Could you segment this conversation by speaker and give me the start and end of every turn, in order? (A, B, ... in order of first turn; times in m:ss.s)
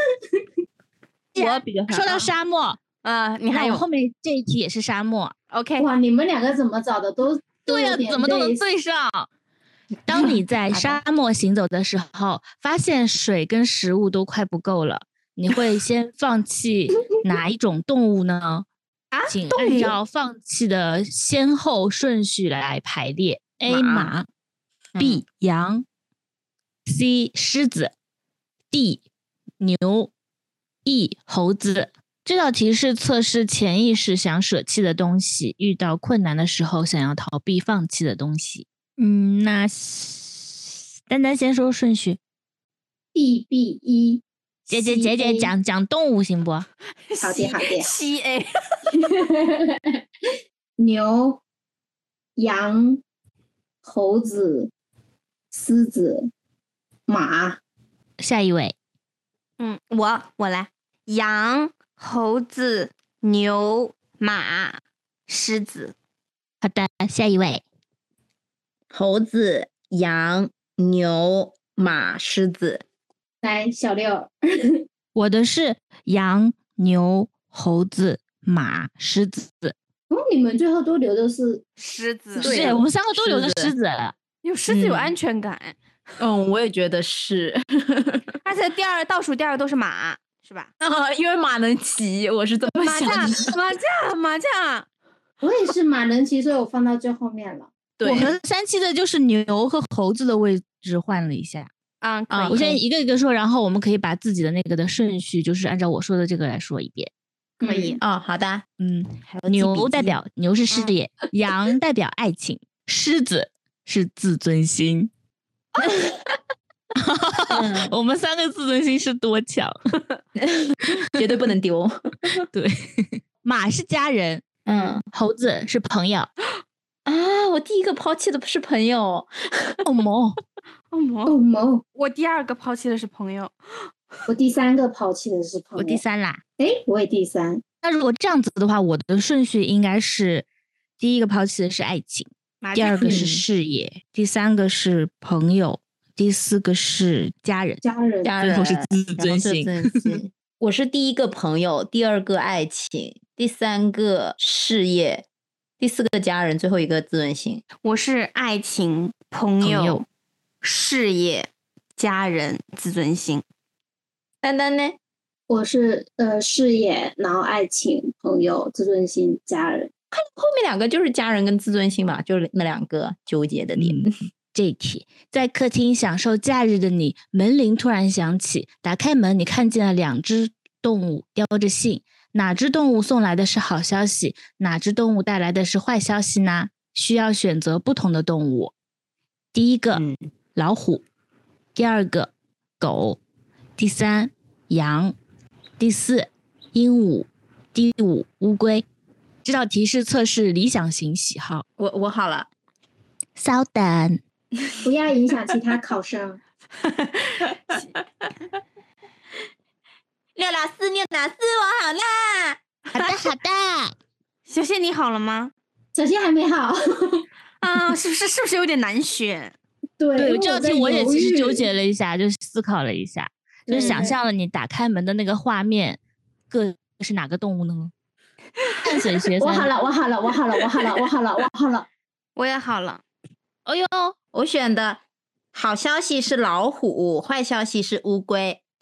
0:01.3-0:02.3 A
0:01.4-0:02.8 B
0:03.0-0:03.8 A
0:03.5-0:05.3 B
0:05.5-0:05.9 A
0:05.8-0:08.6 C
0:07.7-0:09.3 B
0:10.0-0:18.6 B
0:19.1-0:19.9 A
0:19.3-0:24.2 B
0:23.7-0:24.1 D
0:24.9-0:25.2 D
0:25.0-0:25.8 B
0:26.8-0:27.9 B
0:28.7-0:29.0 B
0:29.6-0:30.1 B
0:30.8-0:42.2 B
0:43.1-0:45.5 C
0:44.7-0:46.6 B
0:47.1-0:48.5 A
0:47.2-0:47.9 C
0:48.9-0:49.9 C
0:50.8-0:51.4 C
0:52.4-0:53.0 C
0:53.8-0:54.7 C
0:55.5-0:56.3 C
0:57.1-0:57.6 C
0:58.2-0:58.7 B
0:59.6-1:05.9 A
1:06.6-1:07.6 B
1:08.9-1:12.8 D
1:13.4-1:14.8 C
1:15.1-1:19.7 B
1:20.1-1:21.6 C
1:21.8-1:22.6 A
1:22.4-1:24.1 B
1:22.4-1:23.7 D
1:24.4-1:25.8 A
1:24.7-1:25.1 D
1:26.2-1:28.3 D
1:28.4-1:30.7 A
1:30.8-1:33.5 D
1:32.7-1:34.8 A
1:35.4-1:37.7 C
1:38.0-1:38.3 D
1:38.0-1:41.7 B
1:42.0-1:42.7 A
1:42.3-1:42.8 D
1:42.5-1:47.1 B
1:47.6-1:48.0 C
1:47.6-1:48.0 A
1:48.0-1:48.6 D
1:48.8-1:55.1 B
1:49.3-1:50.2 D
1:56.9-1:59.8 B
1:57.5-1:57.9 D
2:00.4-2:02.4 D
2:02.5-2:04.4 B
2:04.6-2:05.0 D
2:05.1-2:06.3 B
2:07.0-2:09.8 D
2:09.8-2:10.4 B
2:10.9-2:11.4 A
2:11.3-2:11.8 C
2:12.0-2:13.5 A
2:14.3-2:16.0 C
2:15.8-2:16.4 B
2:16.6-2:17.6 C
2:17.8-2:20.4 B
2:21.0-2:27.8 B
2:22.6-2:23.2 A
2:23.0-2:23.4 D
2:27.8-2:28.3 C
2:28.2-2:35.2 D
2:28.4-2:30.2 B
2:35.8-2:37.6 D
2:37.8-2:40.0 A
2:39.6-2:40.0 B
2:40.6-2:43.4 A
2:44.4-2:45.0 D
2:45.5-2:49.9 C
2:50.1-2:54.2 D
2:53.8-3:08.7 B
3:09.5-3:10.0 B
3:09.9-3:10.2 D
3:10.6-3:11.0 B
3:11.8-3:13.2 B
3:13.8-3:15.1 B
3:15.8-3:18.8 B
3:19.4-3:21.6 B
3:21.8-3:22.5 D
3:23.4-3:24.2 B
3:24.8-3:26.4 C
3:27.4-3:27.8 D
3:30.4-3:32.6 D
3:32.9-3:33.9 B
3:34.5-3:35.5 A
3:35.9-3:37.2 C
3:37.6-3:39.5 A
3:40.0-3:41.6 C
3:40.2-3:47.9 B
3:43.7-3:44.2 C
3:43.7-3:44.1 A
3:48.8-3:49.7 B
3:49.4-3:51.9 C
3:52.4-3:53.0 A
3:53.6-3:54.2 B
3:54.3-3:55.0 D
3:55.5-3:58.6 D